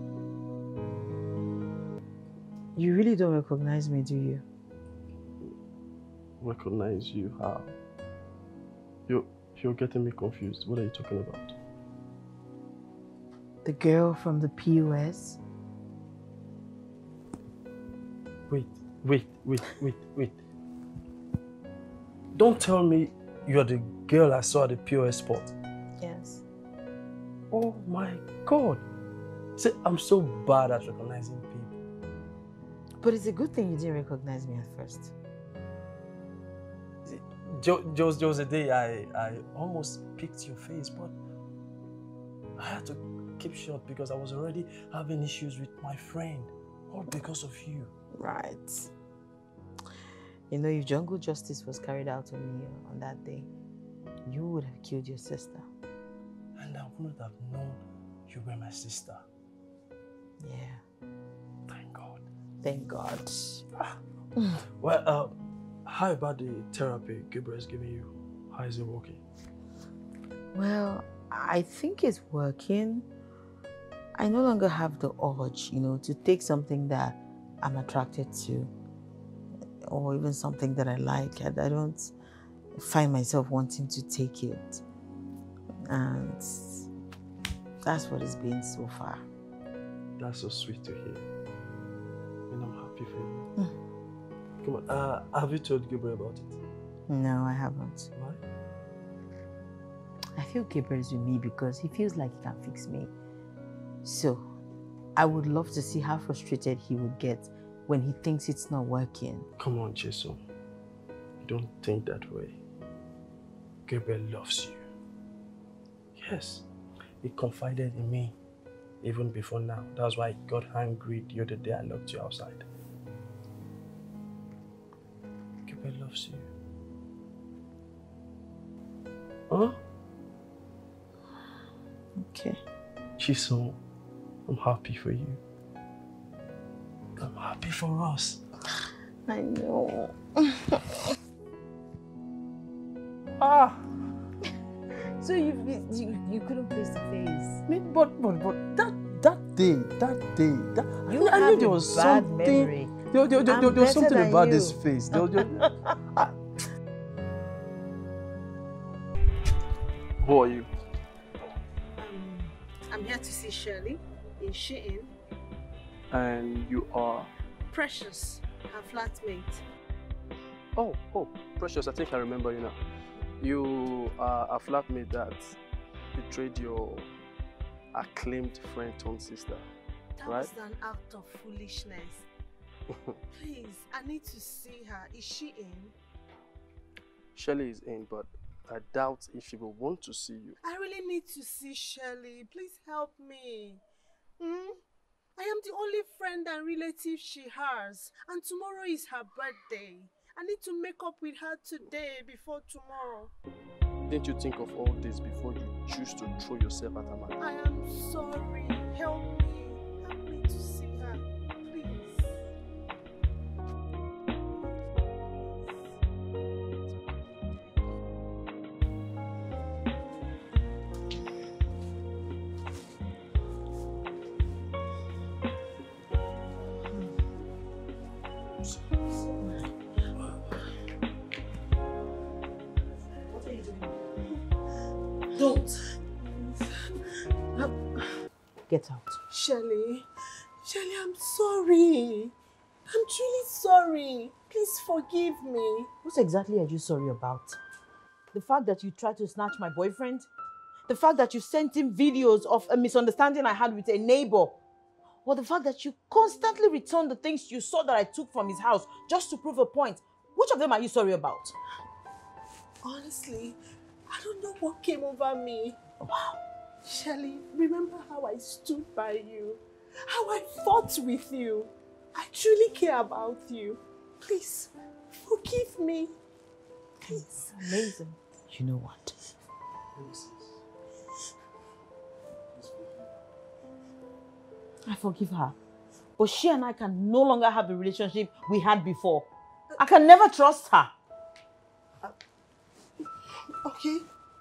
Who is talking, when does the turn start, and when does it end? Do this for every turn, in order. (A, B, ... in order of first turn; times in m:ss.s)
0:02.8-0:04.4 A
0:06.4-0:07.7 B
0:09.1-0:11.6 B
0:13.6-0:15.4 A
0:18.5-0:20.4 B
0:22.3-0:25.5 B
0:26.0-0:26.4 A
0:27.5-0:28.8 B
0:29.6-0:31.8 B
0:33.0-0:35.1 A
0:37.0-0:41.1 B
0:42.6-0:47.9 B
0:48.1-0:48.9 A
0:50.5-0:53.5 A
0:54.2-0:55.6 A
0:56.6-0:59.2 B
1:00.4-1:00.8 A
1:01.7-1:02.2 B
1:02.6-1:03.6 A
1:04.8-1:05.3 B
1:05.9-1:09.2 B
1:10.5-1:13.1 A
1:14.2-1:18.7 A
1:19.8-1:22.1 A
1:22.7-1:24.8 A
1:25.8-1:26.8 A
1:27.8-1:29.2 A
1:30.2-1:31.2 B
1:32.5-1:33.5 B
1:34.6-1:36.6 B
1:37.1-1:38.1 A
1:40.4-1:43.1 A
1:44.0-1:44.4 A
1:45.2-1:49.5 A
1:49.6-1:50.4 B
1:51.4-1:52.6 B
1:53.9-1:54.8 B
1:56.1-1:56.6 B
1:57.2-1:58.3 B
1:59.0-2:02.6 B
2:05.6-2:06.5 B
2:09.5-2:09.8 B
2:12.2-2:12.6 A
2:13.2-2:13.8 B
2:14.5-2:15.4 B
2:17.2-2:18.4 B
2:19.3-2:20.8 A
2:23.4-2:23.8 B
2:25.2-2:27.6 A
2:27.7-2:35.6 B
2:31.1-2:33.0 A
2:33.5-2:35.4 C
2:33.5-2:33.9 A
2:40.2-2:40.7 B
2:42.0-2:45.1 C
2:46.1-2:47.3 B
2:47.7-2:49.6 C
2:50.8-2:52.8 B
2:53.4-2:55.6 B
2:56.1-2:57.1 B
2:57.9-2:59.6 B
3:00.2-3:02.3 C
3:00.2-3:00.5 B
3:03.3-3:05.9 C
3:07.3-3:10.6 B
3:10.6-3:13.8 C
3:14.4-3:14.8 C
3:15.4-3:23.3 C
3:24.1-3:27.4 B
3:27.4-3:32.5 C
3:35.2-3:36.0 C
3:37.5-3:37.9 C
3:55.3-3:55.7 A
3:56.2-3:58.0 C
3:58.7-3:59.2 A
3:59.3-4:00.1 C
4:00.6-4:02.3 C
4:02.9-4:05.9 C
4:06.0-4:07.6 A
4:08.3-4:10.3 A
4:10.9-4:14.6 A
4:15.2-4:21.5 A
4:22.8-4:23.6 C
4:24.1-4:25.8 C
4:26.0-4:26.4 A
4:26.8-4:34.7 C
4:35.2-4:36.1 C
4:37.0-4:39.2 A
4:37.1-4:37.9 C
4:39.9-4:40.6 B
4:42.5-4:43.1 B
4:44.8-4:45.6 A
4:46.2-4:49.3 A
4:49.8-4:50.9 A
4:53.6-4:54.0 C